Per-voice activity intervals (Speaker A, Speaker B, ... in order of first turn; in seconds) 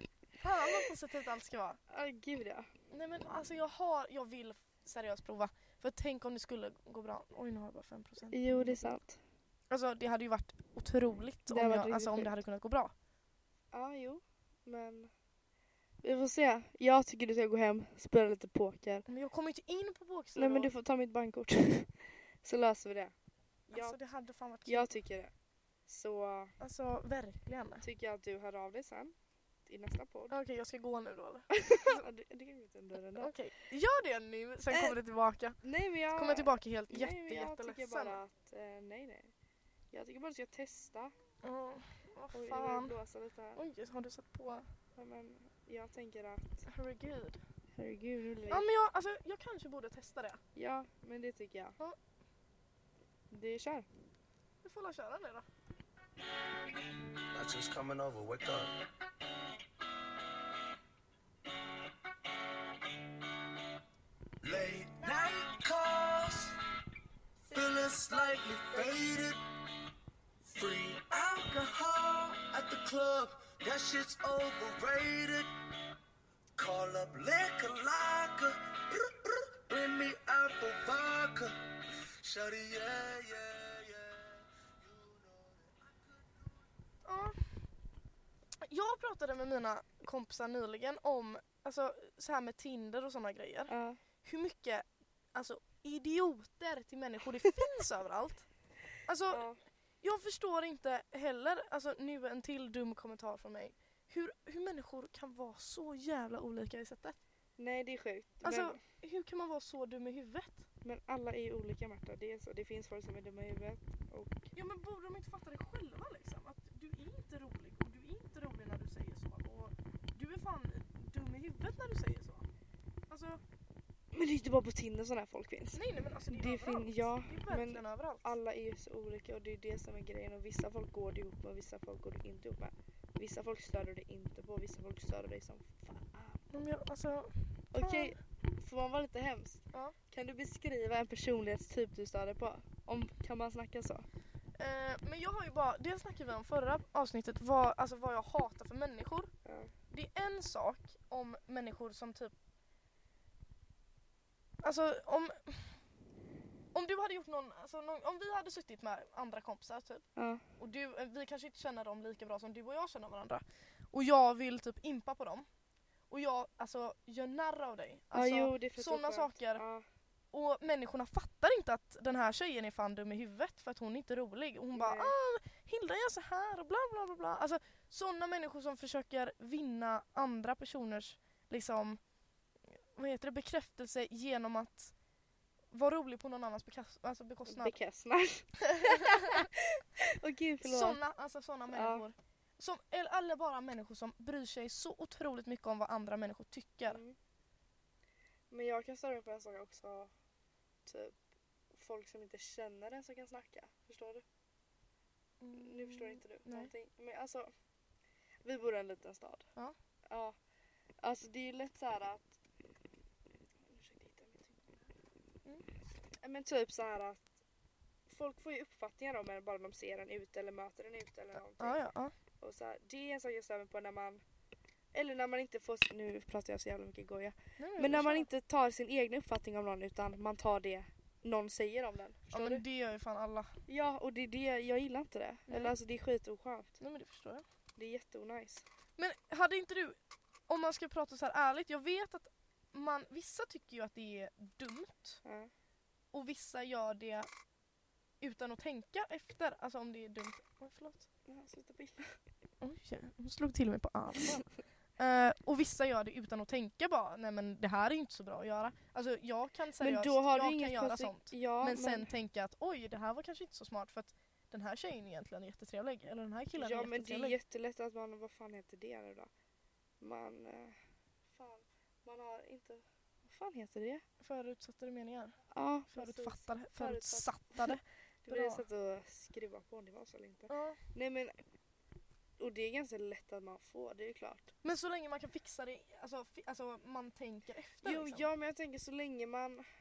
Speaker A: 0.4-1.8, 2.9-9.0, 9.7-12.9, 19.1-20.7, 23.7-25.0, 26.6-27.8, 30.3-32.0, 33.2-35.6, 36.1-38.2, 41.4-43.0, 43.6-44.7, 46.7-47.4, 48.5-50.4, 54.6-55.5, 87.0-87.4, 88.6-93.7, 94.2-98.5, 99.1-99.5, 100.0-107.2, 108.4-110.7, 114.5-122.5, 123.1-123.4, 125.7-128.3, 136.5-138.2, 144.6-149.3, 149.9-152.3, 154.6-155.8, 156.7-160.1, 160.6-165.5, 166.1-169.6, 170.3-182.0, 182.7-184.9, 185.7-187.8, 188.6-189.5, 190.6-197.0, 205.4-206.7, 221.6-222.1, 227.6-228.3, 232.3-233.5, 235.5-235.8, 236.8-237.4, 239.0-245.2, 246.1-247.3, 248.2-251.1, 252.6-254.5, 255.0-267.4, 274.2-275.4, 275.9-278.6, 280.5-280.8, 284.6-288.3
Speaker B: 1.9-2.7, 8.3-9.2, 11.5-12.3, 13.7-15.1, 16.0-19.1, 20.4-23.1, 23.7-24.0, 24.7-25.3, 25.9-26.6, 27.8-29.1, 29.7-30.3, 31.5-33.3, 34.7-35.0, 35.6-39.3, 39.9-41.1, 42.3-43.6, 45.0-46.7, 47.8-48.7, 50.5-51.8, 53.3-53.9, 67.5-68.9, 93.7-94.0, 99.3-99.6, 107.6-108.8, 110.8-114.5, 124.1-136.5, 137.7-144.1, 149.4-149.7, 160.2-160.4, 168.1-169.8, 174.7-175.1, 187.5-191.0, 191.7-192.0, 196.9-197.2, 198.5-200.1, 200.9-201.2, 201.7-204.2, 205.5-207.5, 208.4-209.5, 210.1-210.4, 211.0-212.4, 213.7-214.9, 216.2-217.3, 218.1-221.8, 222.4-224.2, 224.9-232.6, 233.7-236.8, 237.8-238.7, 245.2-245.5, 251.3-252.2, 259.8-262.1, 266.6-269.3, 270.0-270.8, 271.3-274.0, 275.5-281.4, 282.4-284.5, 287.8-289.6
Speaker C: 57.3-58.8, 64.4-66.6, 67.5-69.4, 70.5-75.5, 76.6-86.6